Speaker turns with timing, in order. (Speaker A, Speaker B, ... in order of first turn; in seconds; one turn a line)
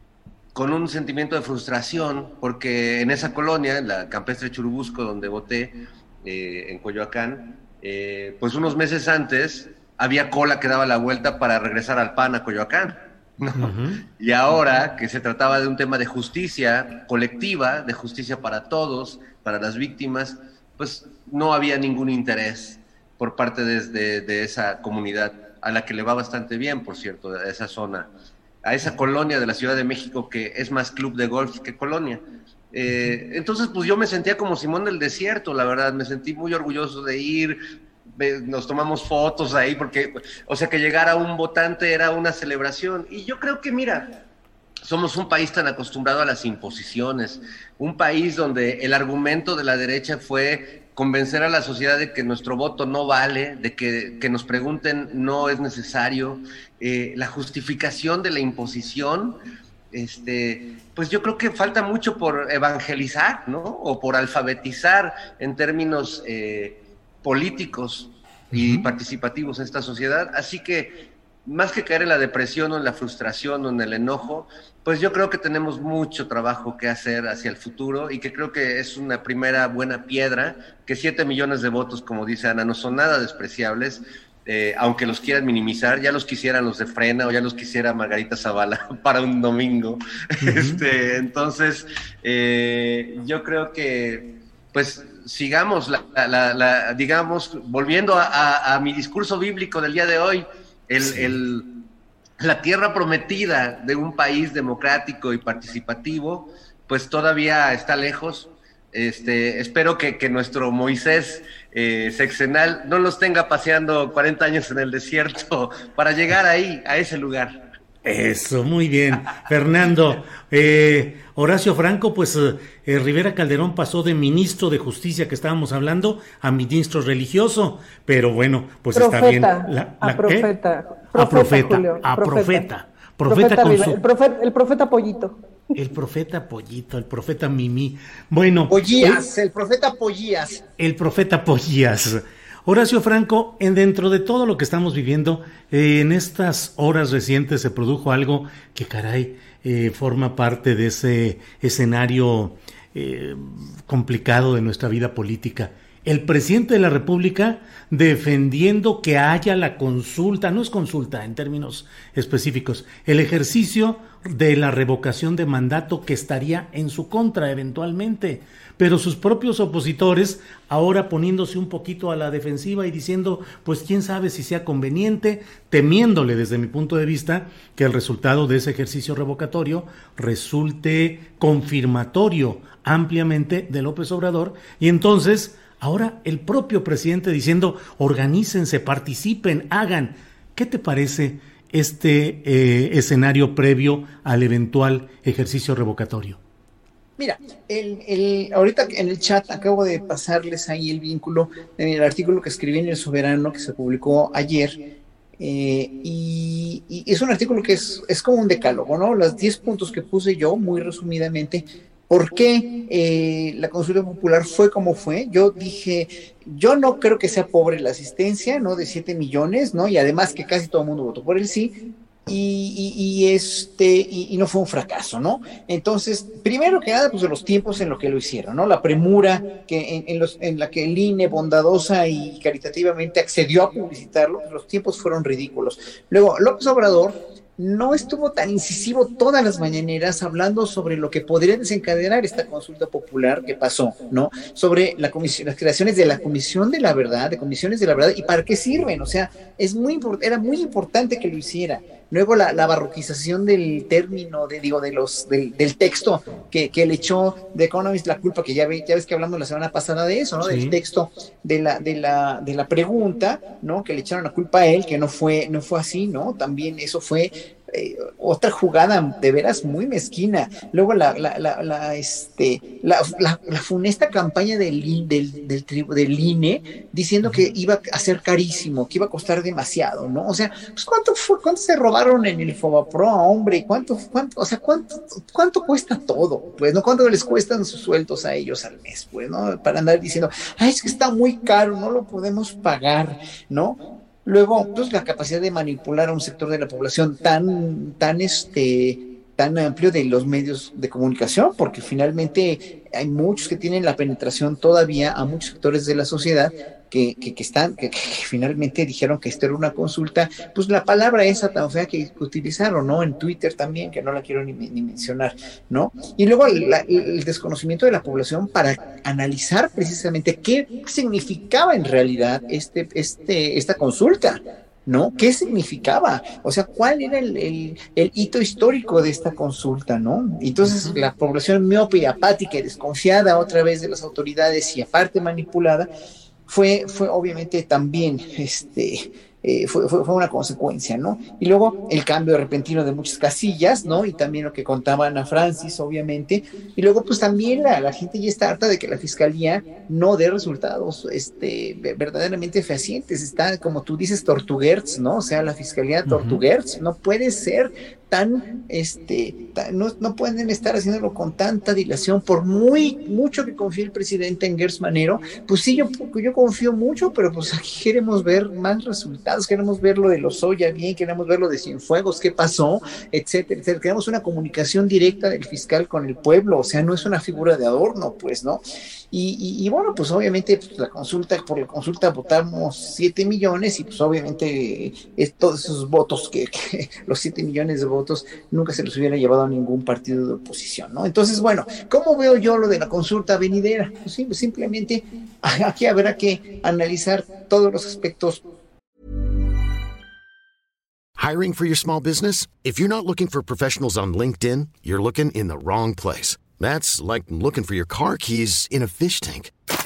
Speaker A: 0.5-28.1
Speaker B: 13.6-14.0
Speaker A: 28.6-37.6
Speaker B: 32.9-33.1
Speaker A: 38.2-44.1
Speaker A: 44.8-59.4
Speaker A: 59.9-70.9
Speaker B: 68.5-68.8
Speaker A: 71.5-101.6
Speaker B: 90.4-90.8
Speaker B: 101.0-101.3
Speaker A: 102.4-117.6
Speaker B: 118.0-130.5
Speaker C: 128.9-132.7
Speaker B: 131.1-134.0
Speaker C: 133.3-135.4
Speaker B: 135.8-139.2
Speaker D: 138.7-140.6
Speaker B: 140.8-196.4
Speaker D: 197.2-204.8
Speaker D: 205.4-221.7
Speaker D: 222.2-335.9
Speaker B: 260.4-260.8
Speaker B: 330.6-330.9
Speaker D: 336.5-398.4
Speaker B: 356.1-356.4
Speaker E: 401.2-409.5